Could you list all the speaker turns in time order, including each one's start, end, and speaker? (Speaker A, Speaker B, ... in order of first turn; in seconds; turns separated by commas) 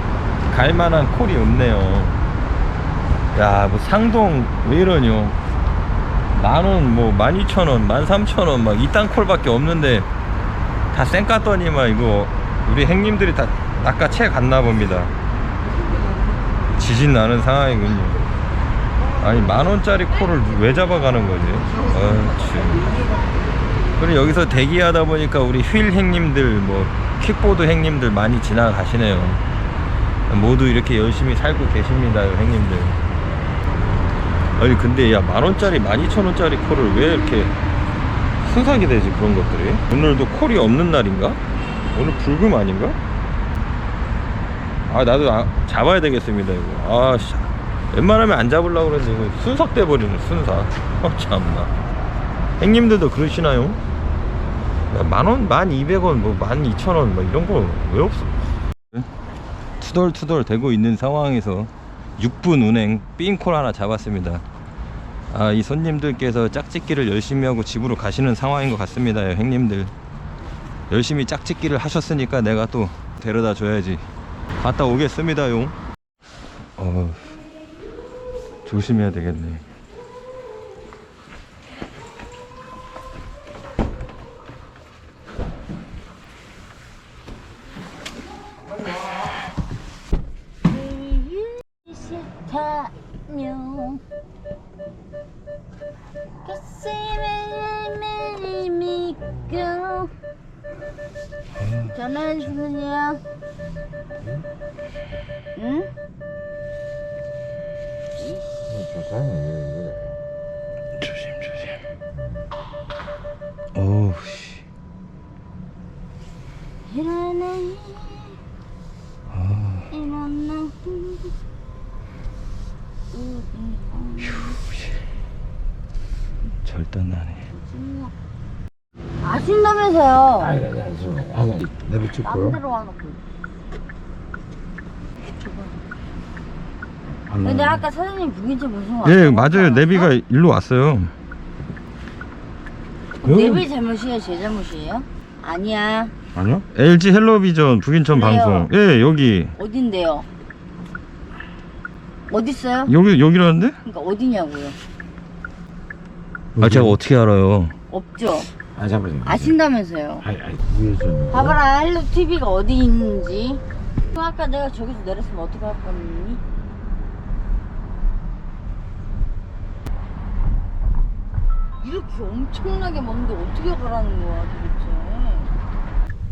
Speaker A: 0.5-2.2, Speaker A: 3.3-5.4, Speaker A: 6.3-10.1, Speaker A: 10.9-15.1, Speaker A: 16.8-18.2, Speaker A: 19.2-22.9, Speaker A: 24.0-29.4, Speaker A: 30.3-33.0, Speaker A: 34.6-37.5, Speaker A: 38.4-41.4, Speaker A: 41.9-43.0, Speaker A: 44.9-51.7, Speaker A: 52.6-53.8, Speaker A: 54.9-58.3, Speaker A: 59.8-64.4, Speaker A: 65.3-69.9, Speaker A: 70.9-74.0, Speaker A: 74.6-75.8, Speaker A: 76.8-77.3, Speaker A: 78.7-79.6, Speaker B: 90.6-94.0, Speaker B: 96.5-100.1, Speaker A: 101.6-101.9, Speaker B: 101.8-103.2, Speaker B: 105.5-105.9, Speaker B: 108.2-108.5, Speaker C: 108.7-110.1, Speaker A: 111.0-111.8, Speaker A: 113.8-114.6, Speaker B: 116.8-118.4, Speaker A: 119.3-119.9, Speaker B: 119.9-121.3, Speaker B: 123.1-124.6, Speaker A: 126.7-127.4, Speaker B: 127.5-128.1, Speaker B: 129.2-130.6, Speaker C: 130.5-132.6, Speaker B: 132.2-133.2, Speaker B: 135.4-135.7, Speaker C: 137.3-137.7, Speaker B: 137.4-140.1, Speaker A: 139.0-141.1, Speaker A: 143.2-143.7, Speaker B: 143.2-146.1, Speaker A: 146.4-149.6, Speaker B: 148.1-148.7, Speaker B: 149.6-150.3, Speaker B: 152.3-152.9, Speaker A: 152.9-153.8, Speaker B: 153.8-154.8, Speaker A: 156.6-157.8, Speaker B: 157.9-158.5, Speaker C: 158.8-159.4, Speaker B: 159.2-160.3, Speaker C: 160.3-161.4, Speaker B: 161.3-166.4, Speaker B: 171.8-175.5